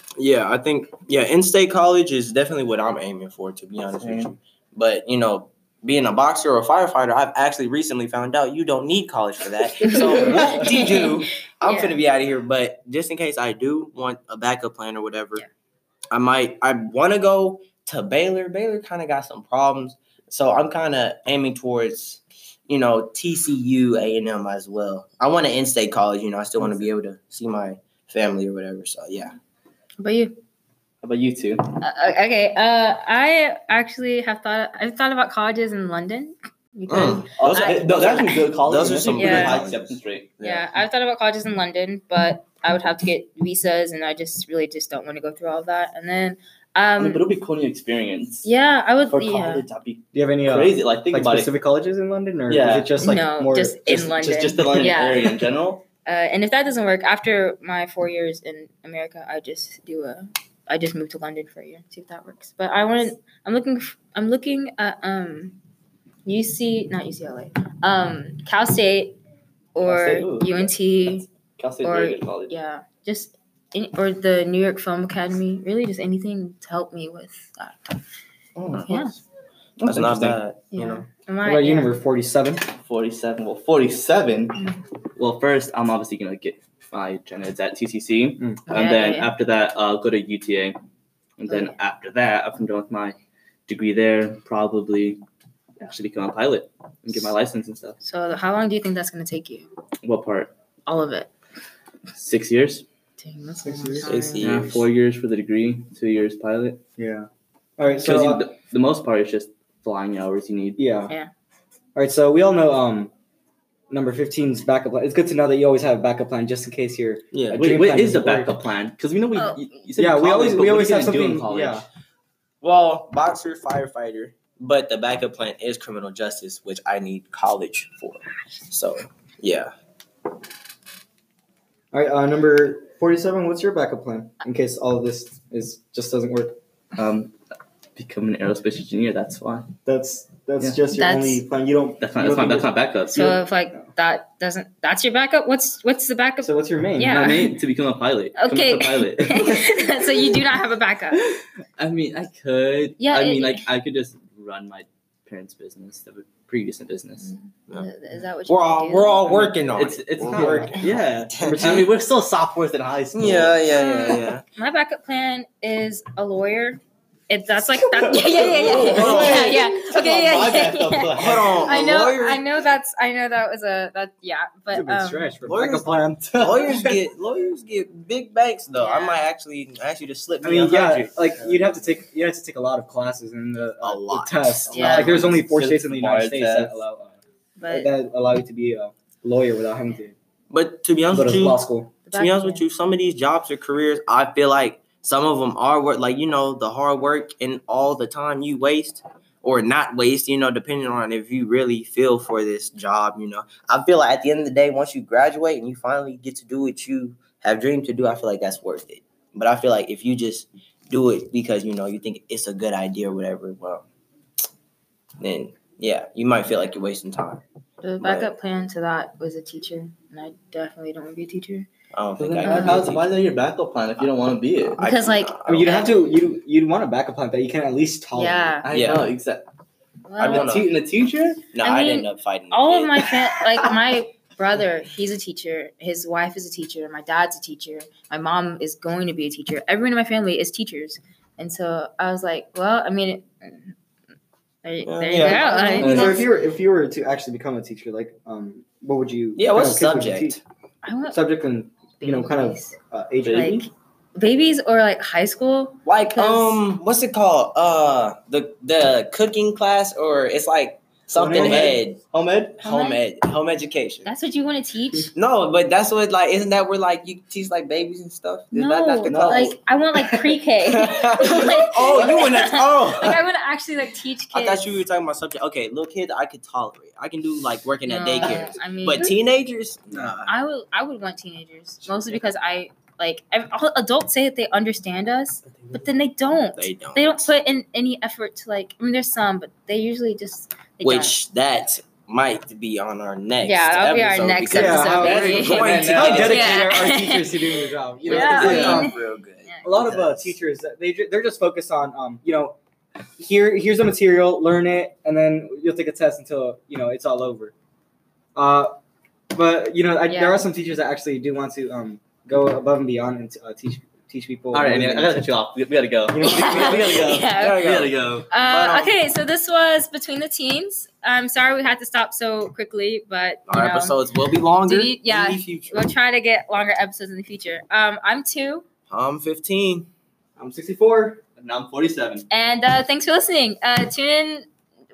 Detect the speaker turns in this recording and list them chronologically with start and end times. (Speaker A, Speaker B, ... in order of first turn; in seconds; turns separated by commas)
Speaker A: 0.2-15.4, Speaker B: 3.9-4.3, Speaker C: 9.8-12.0, Speaker D: 10.3-10.6, Speaker A: 16.1-29.4, Speaker C: 30.0-30.4, Speaker B: 31.0-31.8, Speaker C: 31.8-38.5, Speaker A: 36.9-40.7, Speaker B: 37.4-40.3, Speaker C: 39.1-39.6, Speaker C: 40.4-47.3, Speaker B: 47.0-48.5, Speaker C: 48.4-49.6, Speaker B: 49.1-51.5, Speaker D: 50.1-54.0, Speaker B: 52.5-52.9, Speaker C: 53.0-55.5, Speaker B: 53.9-55.8, Speaker C: 56.1-65.6, Speaker C: 66.2-69.2, Speaker C: 69.8-71.3, Speaker B: 69.8-72.5, Speaker C: 71.8-78.0, Speaker A: 78.6-79.1, Speaker C: 78.9-79.1, Speaker B: 79.8-80.4, Speaker A: 79.8-81.1, Speaker C: 80.7-82.0, Speaker D: 81.4-82.7, Speaker B: 82.8-84.6, Speaker B: 85.2-90.8, Speaker C: 88.7-89.3, Speaker B: 91.4-93.2, Speaker C: 91.5-91.8, Speaker B: 93.7-95.2, Speaker B: 95.8-98.0, Speaker C: 98.0-99.7, Speaker B: 100.0-100.5, Speaker C: 100.9-101.3, Speaker B: 102.1-102.8, Speaker C: 103.2-104.5, Speaker D: 103.6-104.1, Speaker A: 104.0-104.9, Speaker B: 104.4-106.8, Speaker D: 107.0-108.5, Speaker B: 108.0-110.8, Speaker D: 110.8-111.1, Speaker D: 112.0-113.1, Speaker D: 113.9-118.6, Speaker A: 117.3-117.7, Speaker B: 117.5-121.9, Speaker C: 119.3-119.6, Speaker D: 120.0-121.8, Speaker A: 122.6-129.7, Speaker D: 131.9-136.6, Speaker B: 137.0-137.3, Speaker B: 138.0-139.7, Speaker D: 139.9-143.9, Speaker C: 140.9-141.4, Speaker B: 142.0-143.3, Speaker C: 143.1-147.6, Speaker D: 146.4-147.4, Speaker B: 147.1-149.8, Speaker C: 148.4-151.2, Speaker B: 151.1-157.3, Speaker C: 153.0-153.7, Speaker C: 157.2-159.4, Speaker A: 158.5-161.9, Speaker B: 159.3-163.6, Speaker D: 160.3-160.8, Speaker D: 161.4-161.9, Speaker A: 163.1-164.4, Speaker C: 163.7-175.3, Speaker B: 167.8-171.7, Speaker A: 168.7-169.6, Speaker A: 171.2-172.4, Speaker D: 174.7-177.0, Speaker A: 175.5-182.0, Speaker C: 178.8-179.3, Speaker D: 180.4-190.2, Speaker A: 183.8-185.4, Speaker C: 184.7-185.2, Speaker B: 185.2-186.8, Speaker C: 187.6-187.9, Speaker A: 190.5-191.6, Speaker D: 191.1-191.9, Speaker C: 192.1-192.6, Speaker A: 192.1-213.9, Speaker A: 215.2-217.4, Speaker C: 217.8-221.7, Speaker A: 218.0-218.3, Speaker A: 221.9-223.1, Speaker B: 222.2-224.8, Speaker C: 222.4-222.8, Speaker A: 224.6-225.8, Speaker C: 224.8-226.1, Speaker D: 225.5-228.6, Speaker C: 228.1-228.7, Speaker B: 228.6-229.5, Speaker A: 228.7-229.1, Speaker C: 230.1-230.7, Speaker A: 230.2-230.7, Speaker B: 230.2-231.4, Speaker A: 231.5-233.1, Speaker C: 231.6-243.7, Speaker C: 244.6-246.2, Speaker A: 244.9-246.1, Speaker D: 245.1-250.4, Speaker B: 245.8-246.2, Speaker A: 249.4-250.4, Speaker C: 250.8-251.2, Speaker D: 251.1-253.6, Speaker C: 252.0-252.8, Speaker B: 253.2-253.6, Speaker C: 253.3-256.6, Speaker A: 255.8-262.0, Speaker D: 261.1-261.8, Speaker B: 261.3-262.6, Speaker C: 262.6-263.0, Speaker A: 262.6-264.1, Speaker C: 264.1-265.1, Speaker A: 265.1-269.5, Speaker C: 268.5-274.8, Speaker B: 269.1-269.6, Speaker A: 270.7-273.2, Speaker B: 271.9-272.2, Speaker A: 274.3-280.3, Speaker C: 277.9-279.1, Speaker C: 280.2-291.1, Speaker B: 281.9-282.1, Speaker B: 285.5-285.8, Speaker A: 286.6-287.3, Speaker A: 290.8-296.9, Speaker C: 293.4-299.7, Speaker D: 294.5-299.0, Speaker B: 294.9-296.6, Speaker A: 298.1-300.3, Speaker B: 298.1-298.8, Speaker D: 299.6-302.6, Speaker D: 303.2-307.5, Speaker D: 308.4-308.7, Speaker D: 309.3-315.3, Speaker C: 310.1-310.4, Speaker B: 314.5-318.3, Speaker D: 316.1-317.2, Speaker C: 316.2-317.7, Speaker A: 317.4-319.0, Speaker C: 318.3-324.0, Speaker A: 323.5-325.9, Speaker C: 324.6-328.6, Speaker A: 328.9-329.9, Speaker D: 330.4-331.2, Speaker B: 331.4-332.2, Speaker C: 332.3-334.5